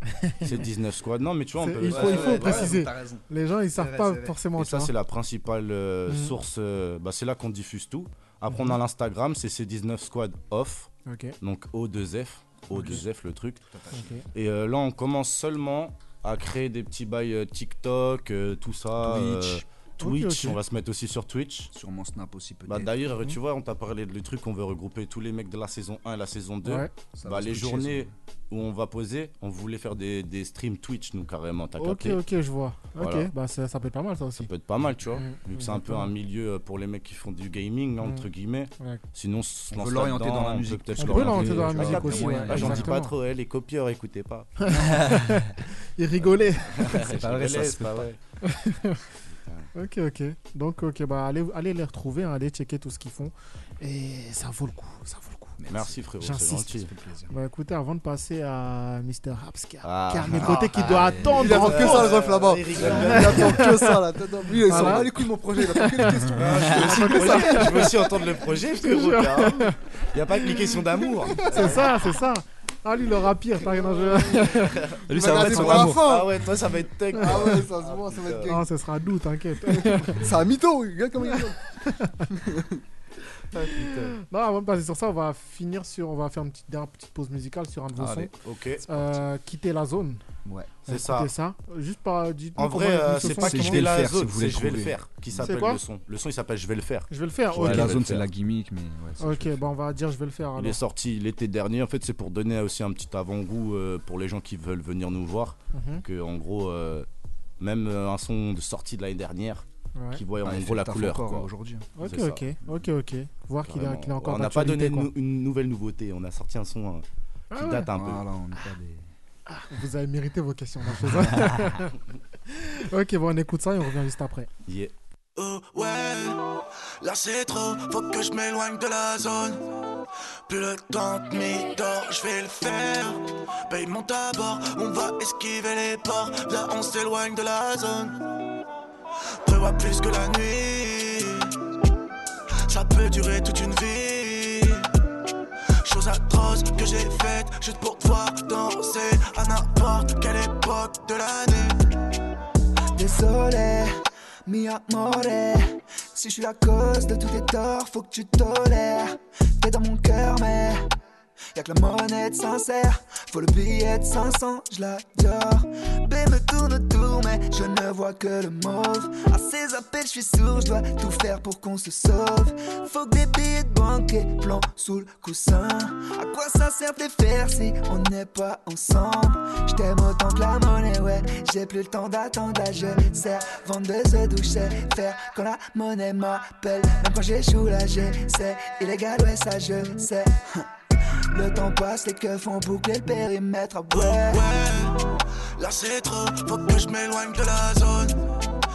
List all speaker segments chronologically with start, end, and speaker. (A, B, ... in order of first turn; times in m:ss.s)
0:00.1-0:00.6 A
0:00.4-0:02.8 B
0:01.6-0:04.9 A
0:01.9-0:04.4 C
0:04.6-0:10.9 B
0:06.1-0:06.4 A
0:08.5-0:08.8 A
0:11.0-0:11.4 A
0:11.4-0:13.6 B
0:12.7-0:13.0 C
0:12.7-0:13.0 A
0:13.7-0:14.2 C
0:13.9-0:14.2 A
0:14.3-0:21.7 B
0:19.0-0:19.6 C
0:20.0-0:20.6 A
0:21.7-0:23.0 C
0:22.7-0:32.2 B
0:26.6-0:26.9 A
0:27.0-0:28.1 C
0:31.8-0:34.5 A
0:33.0-0:33.3 B
0:34.4-0:44.6 B
0:35.1-0:36.1 A
0:38.0-0:38.3 A
0:39.7-0:43.0 C
0:41.0-0:43.1 A
0:44.6-0:47.1 A
0:44.8-0:45.5 C
0:46.7-0:48.2 B
0:46.9-0:48.1 C
0:48.4-0:49.0 A
0:49.3-0:49.7 B
0:49.7-1:02.2 A
0:55.6-0:57.3 C
0:55.7-0:56.9 B
0:59.8-1:03.7 B
1:00.4-1:02.0 C
1:01.2-1:06.6 D
1:02.7-1:04.0 A
1:02.8-1:03.6 C
1:04.6-1:09.8 A
1:04.7-1:05.1 B
1:06.3-1:07.5 C
1:06.3-1:12.0 B
1:07.2-1:07.7 D
1:10.4-1:14.9 A
1:11.4-1:11.7 D
1:13.7-1:14.5 D
1:14.5-1:18.5 B
1:15.1-1:16.1 C
1:15.1-1:16.3 D
1:15.5-1:15.9 A
1:17.1-1:17.6 A
1:17.1-1:18.7 D
1:18.5-1:20.3 A
1:19.7-1:21.6 D
1:21.3-1:22.3 A
1:22.3-1:22.8 D
1:23.6-1:28.3 A
1:23.7-1:24.0 B
1:28.0-1:28.3 C
1:28.4-1:28.9 B
1:28.8-1:30.2 A
1:30.4-1:30.8 C
1:30.8-1:34.1 A
1:30.9-1:31.3 B
1:32.6-1:38.3 B
1:33.1-1:35.5 C
1:35.4-1:35.8 A
1:37.1-1:38.1 A
1:37.5-1:39.7 C
1:39.2-1:40.8 A
1:40.6-1:47.1 B
1:45.7-1:46.0 A
1:47.6-1:52.5 B
1:49.9-1:50.2 A
1:50.4-1:51.9 C
1:52.0-1:55.1 A
1:53.6-1:58.2 B
1:57.5-1:57.9 A
1:57.9-1:59.0 C
1:59.5-2:02.0 A
2:01.0-2:01.7 C
2:02.5-2:04.5 A
2:04.6-2:04.9 B
2:05.4-2:09.6 E
2:10.5-2:18.2 E
2:19.4-2:21.6 E
2:22.6-2:24.9 E
2:25.8-2:31.8 E
2:32.9-2:33.9 F
2:34.4-2:40.9 F
2:41.5-3:10.7 F
3:11.3-3:14.4 F
3:13.9-3:18.2 E